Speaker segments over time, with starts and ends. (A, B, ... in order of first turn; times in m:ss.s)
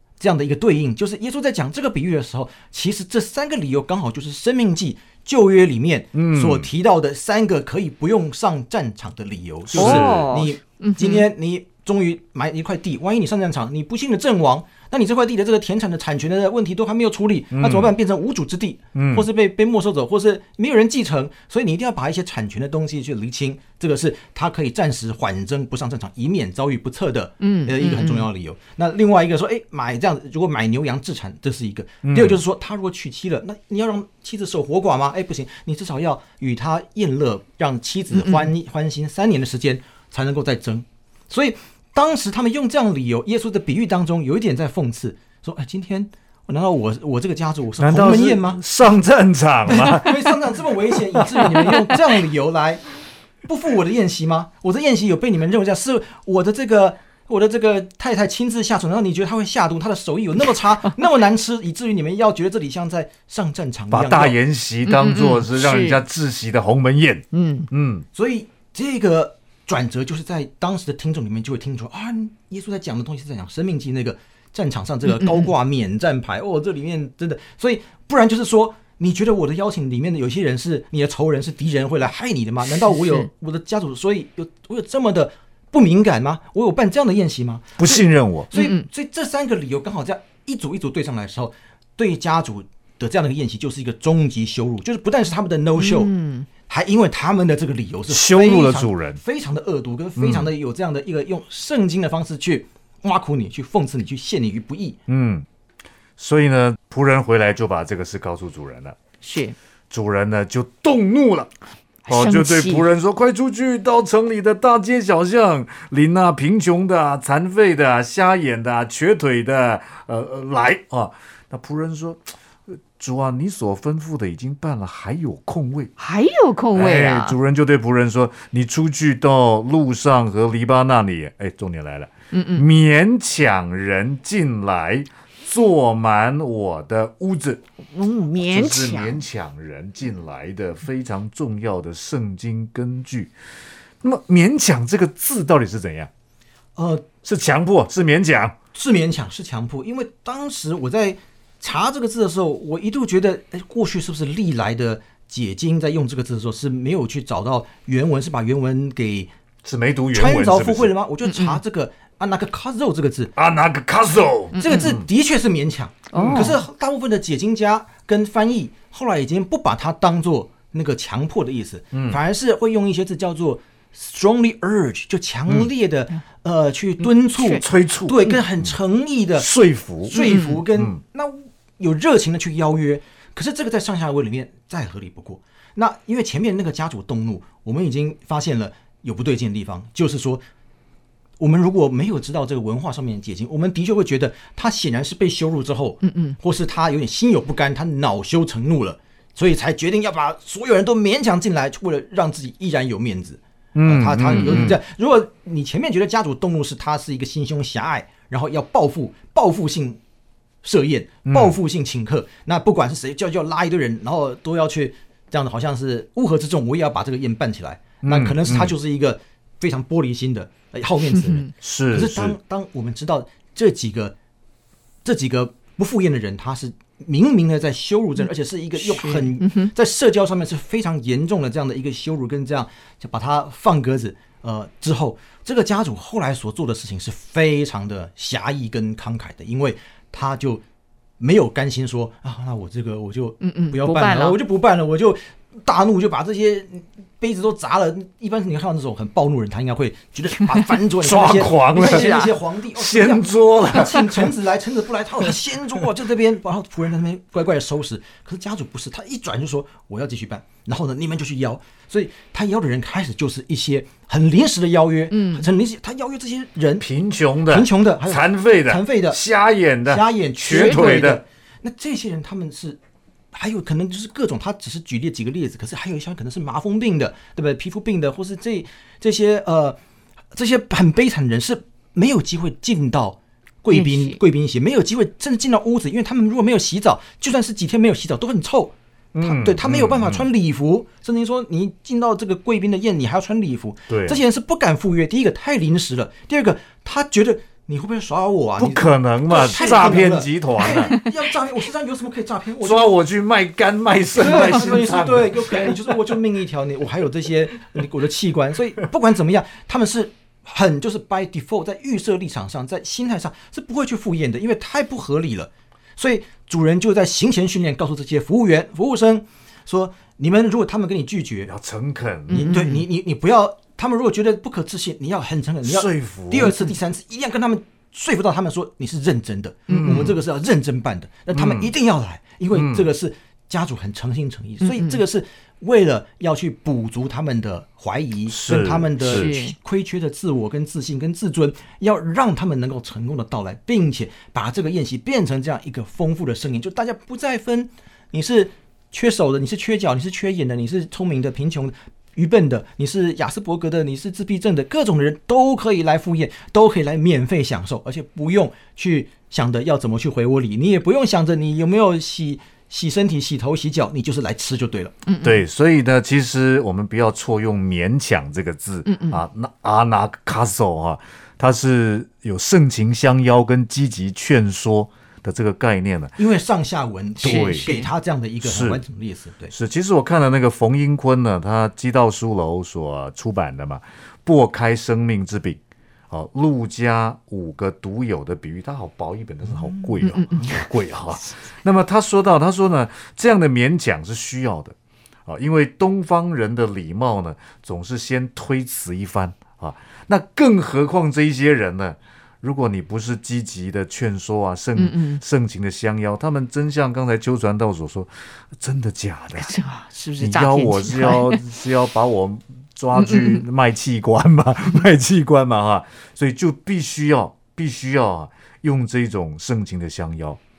0:00.2-0:48.6 A
0:06.2-0:06.7 B
0:09.7-0:10.4 B
0:09.8-0:11.3 C
0:17.5-0:17.9 B
0:19.0-0:19.3 B
0:27.4-0:28.3 C
0:32.0-0:32.4 B
0:38.2-0:38.5 C
0:47.8-0:50.4 B
0:49.7-0:52.8 A
0:51.2-0:51.4 B
0:53.4-1:04.4 A
1:03.9-1:08.1 B
1:04.9-1:06.0 C
1:07.3-1:07.7 C
1:08.1-1:45.0 A
1:15.1-1:15.5 C
1:22.8-1:23.3 C
1:27.8-1:28.5 B
1:28.5-1:28.9 C
1:35.8-1:36.5 C
1:38.1-1:39.2 B
1:40.2-1:40.5 B
1:45.1-1:45.5 B
1:46.2-1:49.0 B
1:49.2-1:49.6 C
1:49.9-1:51.5 B
1:52.1-1:52.8 C
1:52.1-2:05.9 B
2:06.0-2:07.4 C
2:06.7-2:17.6 B
2:12.3-2:12.7 C
2:17.9-2:19.2 C
2:18.4-2:23.4 B
2:24.0-2:26.1 B
2:26.8-2:27.1 A
2:27.2-2:28.6 B
2:28.7-2:39.3 A
2:39.6-2:40.9 B
2:40.1-2:43.3 A
2:41.2-2:41.6 C
2:43.4-2:45.1 B
2:44.6-2:44.9 C
2:44.6-2:59.5 A
2:46.1-2:46.6 C
2:51.9-2:52.2 B
2:57.4-2:57.6 C
2:57.6-2:58.7 B
2:59.4-3:01.0 B
3:00.0-3:10.4 A
3:00.2-3:00.6 C
3:11.4-3:30.0 A
3:16.0-3:16.4 C
3:23.8-3:24.8 B
3:30.6-3:44.2 A
3:31.3-3:31.6 B
3:38.0-3:38.8 B
3:41.1-3:41.5 C
3:41.6-3:42.4 B
3:45.0-4:00.6 A
3:48.8-3:49.7 C
4:01.2-4:26.9 A
4:03.4-4:04.4 C
4:11.0-4:14.3 B
4:11.7-4:12.4 C
4:25.1-4:25.5 C
4:26.8-4:31.2 B
4:27.5-4:29.2 A
4:29.9-4:32.8 A
4:30.5-4:31.0 C
4:33.3-4:39.8 A
4:40.3-5:02.9 A
4:43.7-4:44.2 C
4:49.1-4:50.2 B
4:53.9-4:54.2 B
4:58.6-5:01.0 B
5:02.6-5:05.9 B
5:04.2-5:21.5 A
5:21.5-5:22.5 B
5:22.3-5:22.9 C
5:22.3-6:05.0 A
5:25.6-5:26.6 B
5:29.7-5:30.1 C
5:29.7-5:30.2 B
5:31.3-5:31.7 B
5:32.5-5:32.9 B
5:34.6-5:35.0 C
5:38.3-5:39.3 B
5:39.0-5:39.6 C
6:05.1-6:05.4 C
6:05.2-6:16.2 B
6:08.9-6:09.2 C
6:16.2-6:19.5 A
6:17.2-6:17.7 B
6:17.2-6:17.9 C
6:18.4-6:18.8 B
6:19.5-6:34.8 B
6:30.0-6:30.7 C
6:35.3-6:49.5 B
6:44.8-6:45.2 C
6:49.4-6:51.4 C
6:50.2-7:00.4 B
6:53.0-6:53.4 C